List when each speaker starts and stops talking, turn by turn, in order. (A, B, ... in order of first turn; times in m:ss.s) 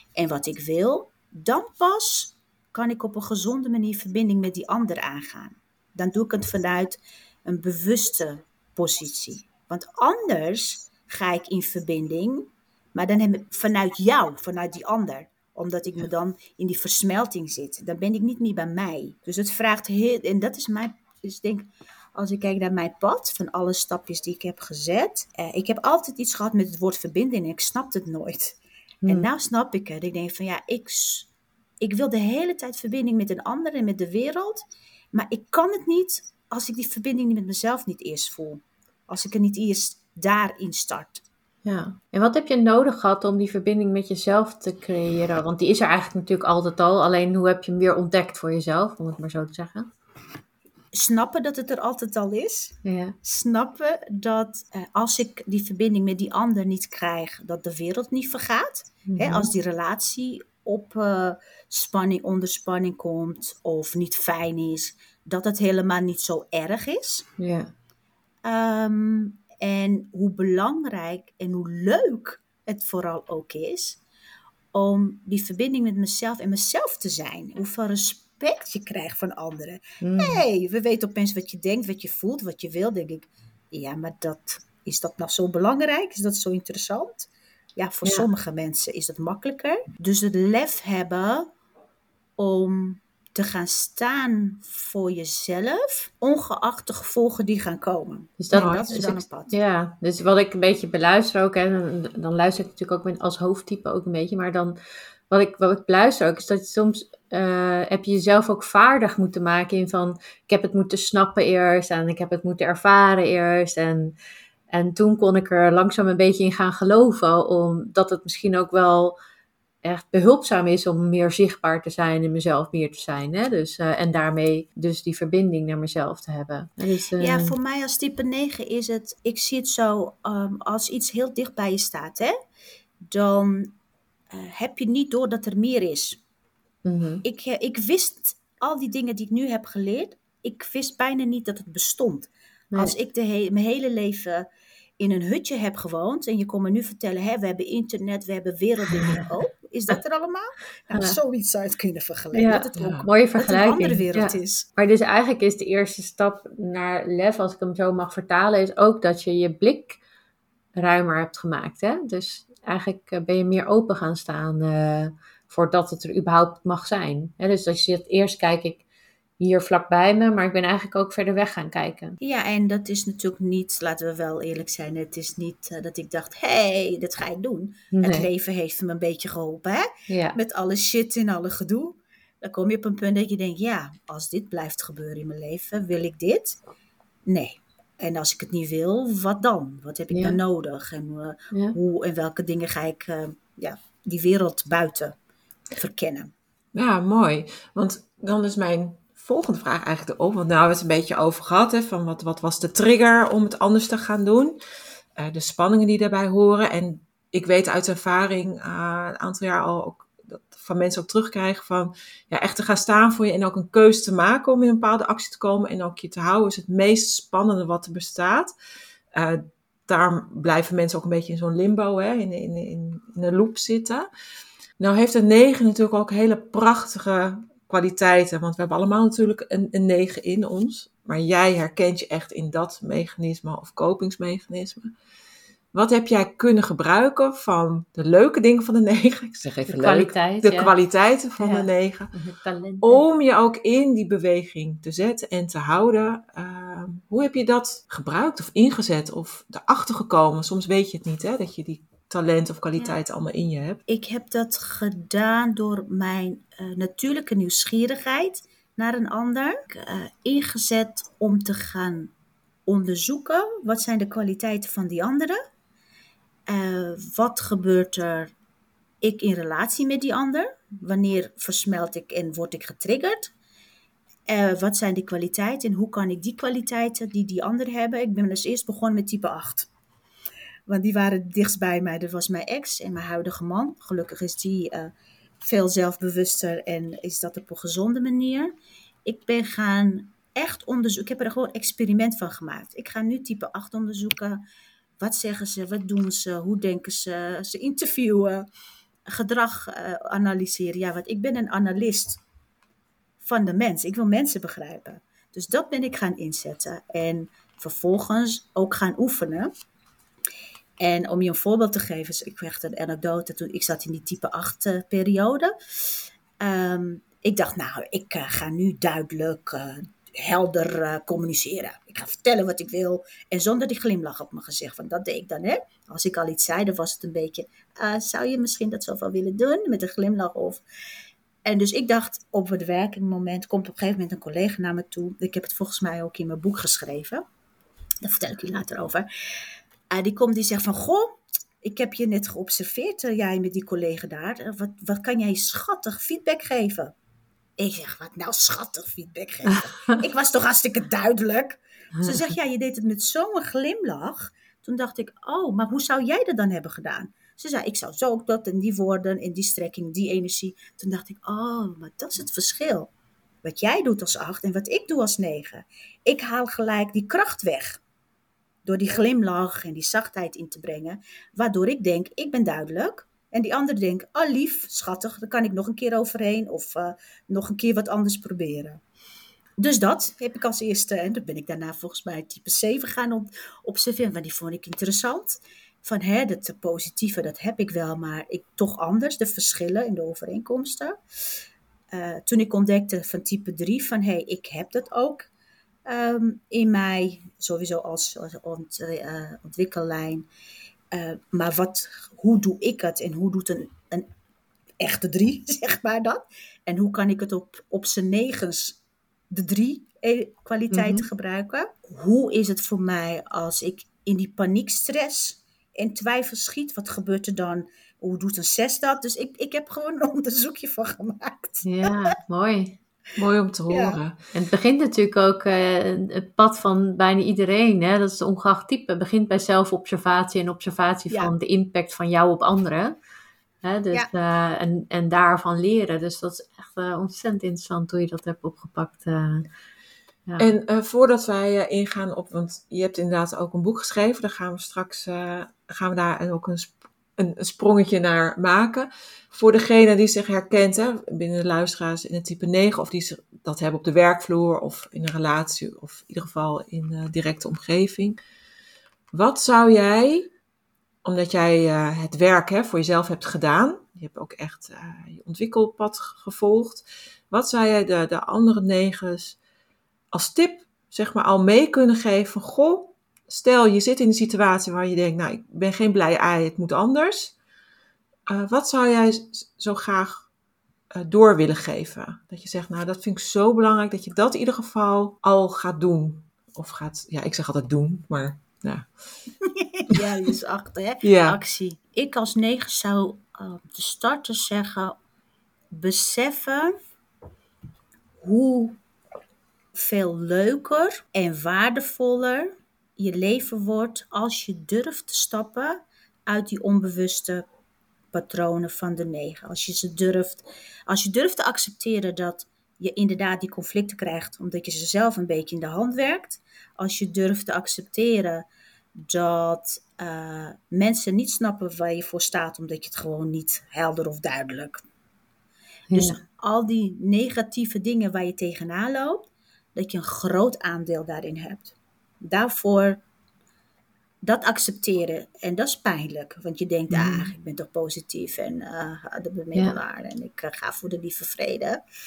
0:00.2-0:31.3 A
0:31.8-0:41.2 A
0:41.6-0:49.9 B
0:50.9-1:07.3 A
0:52.8-0:53.1 B
0:59.0-0:59.5 B
1:07.4-1:07.7 B
1:08.4-1:14.0 A
1:14.7-1:31.5 A
1:20.0-1:20.4 B
1:32.4-1:39.5 A
1:38.4-1:44.8 B
1:38.5-1:38.9 C
1:45.3-1:54.1 B
1:54.7-1:59.1 B
1:59.8-2:07.5 B
2:07.2-2:12.4 A
2:13.1-2:13.7 A
2:14.3-2:16.2 A
2:16.8-2:17.2 B
2:17.2-2:24.4 A
2:25.0-2:34.6 A
2:28.9-2:29.2 B
2:30.9-2:31.2 B
2:32.3-2:40.0 B
2:32.8-2:33.0 C
2:40.8-2:48.8 B
2:49.4-2:52.2 B
2:52.2-3:06.6 A
2:57.9-2:58.3 B
3:00.1-3:00.4 B
3:07.2-3:15.2 A
3:10.1-3:10.4 B
3:15.8-3:16.3 A
3:16.7-3:24.6 C
3:25.2-3:38.5 C
3:39.1-3:44.1 C
3:44.8-3:54.9 C
3:55.7-4:02.1 C
3:59.6-4:00.7 B
4:01.4-4:03.0 B
4:02.8-4:13.8 C
4:13.9-4:22.1 A
4:22.7-4:25.4 A
4:26.5-4:28.3 A
4:29.0-4:33.3 A
4:34.3-4:39.7 A
4:40.7-4:48.5 A
4:49.0-4:54.4 A
4:55.0-4:58.5 A
4:59.1-5:02.2 A
5:03.2-5:09.5 A
5:10.8-5:30.6 A
5:31.4-5:37.2 A
5:38.0-5:39.0 A
5:39.9-5:46.9 A
5:47.6-6:02.9 A
5:52.0-5:52.3 B
6:03.4-6:07.8 A
6:08.6-6:18.8 A
6:19.6-6:31.0 A
6:31.9-6:35.3 A
6:35.8-6:40.2 A
6:40.9-6:44.1 A
6:44.8-6:48.8 A
6:49.3-7:01.9 A
6:50.7-6:51.1 B
7:01.6-7:02.8 B
7:03.2-7:04.2 C
7:03.7-7:04.0 A
7:04.3-7:12.9 B
7:13.6-7:19.4 B
7:20.4-7:38.2 C
7:39.1-7:40.3 C
7:41.0-7:49.4 C
7:50.1-7:57.3 C
7:58.3-8:00.3 C
8:00.9-8:08.9 C
8:09.4-8:15.0 A
8:11.0-8:11.4 C
8:15.7-8:16.7 A
8:18.2-8:18.8 A
8:19.7-8:27.4 A
8:28.1-8:44.8 A
8:45.9-8:46.2 B
8:45.9-8:53.0 A
8:54.2-9:01.8 A
8:56.9-8:57.3 B
8:59.5-8:59.8 B